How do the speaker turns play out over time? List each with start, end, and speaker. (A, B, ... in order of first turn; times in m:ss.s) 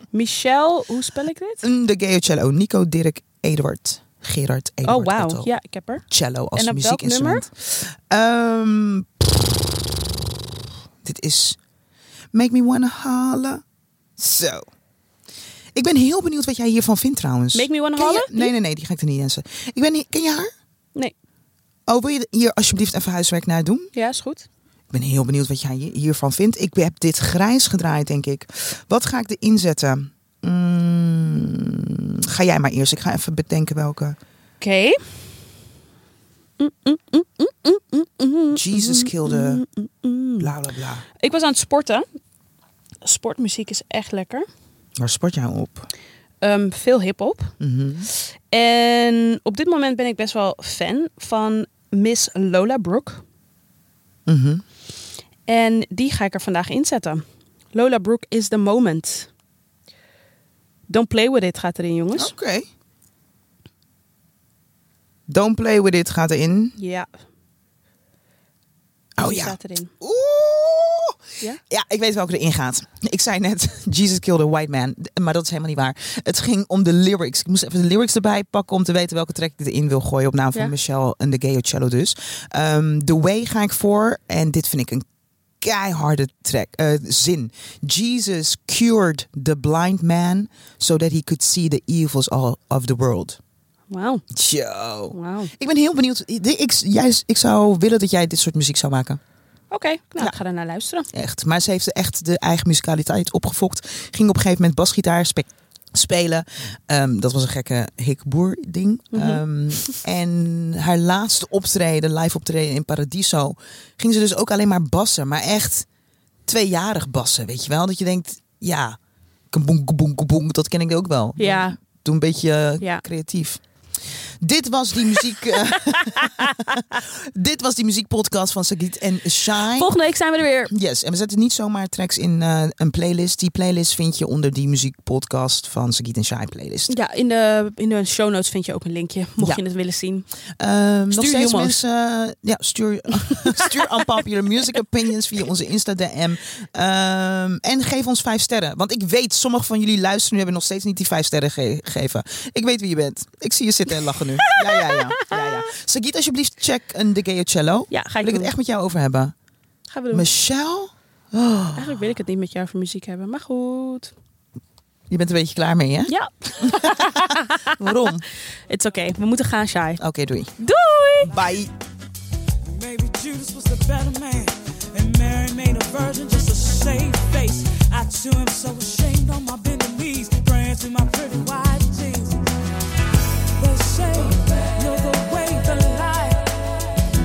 0:00.1-0:01.6 A
0:01.6-0:05.5 B
0:04.8-0:06.0 A
0:06.1-0:09.8 B
0:06.6-0:07.4 A
0:11.0-0:11.6 B
0:12.3-0:13.6 B
0:14.2-0:14.7 B
0:15.8-0:20.5 B
0:17.5-0:18.5 A
0:21.9-0:23.9 B
0:23.9-0:24.5 A
0:24.9-0:34.2 B
0:34.6-0:35.0 A
0:36.6-0:40.5 A
0:38.5-0:39.6 B
0:40.4-0:41.0 B
0:41.2-0:42.1 A
0:43.0-0:44.5 A
0:45.0-0:45.9 B
0:46.4-0:47.5 A
0:47.6-0:48.1 B
0:48.5-0:53.2 A
0:54.3-0:54.6 B
0:55.5-0:59.3 A
1:00.9-1:02.3 A
1:02.2-1:02.7 B
1:05.3-1:06.8 B
1:06.8-1:07.1 A
1:09.2-1:25.1 B
1:09.2-1:09.9 A
1:25.6-1:33.4 B
1:33.9-1:34.2 A
1:34.3-1:39.2 B
1:35.1-1:35.5 A
1:39.7-1:41.1 A
1:41.1-1:55.9 B
1:49.1-1:50.0 A
1:56.5-1:59.0 B
1:59.5-2:03.6 B
2:01.4-2:01.8 A
2:04.4-2:09.9 B
2:05.5-2:07.0 A
2:09.7-2:10.7 A
2:10.7-2:17.0 B
2:16.9-2:20.3 A
2:20.6-2:39.3 B
2:21.1-2:21.8 A
2:23.3-2:23.9 A
2:34.4-2:35.7 A
2:37.9-2:38.5 A
2:39.9-2:40.3 A
2:40.1-2:42.0 B
2:41.7-2:44.1 A
2:45.1-2:48.2 B
2:46.1-2:48.0 A
2:48.7-2:50.0 A
2:50.0-2:50.5 B
2:50.6-2:51.3 A
2:51.2-2:51.7 B
2:52.6-3:02.4 C
3:03.6-3:06.9 C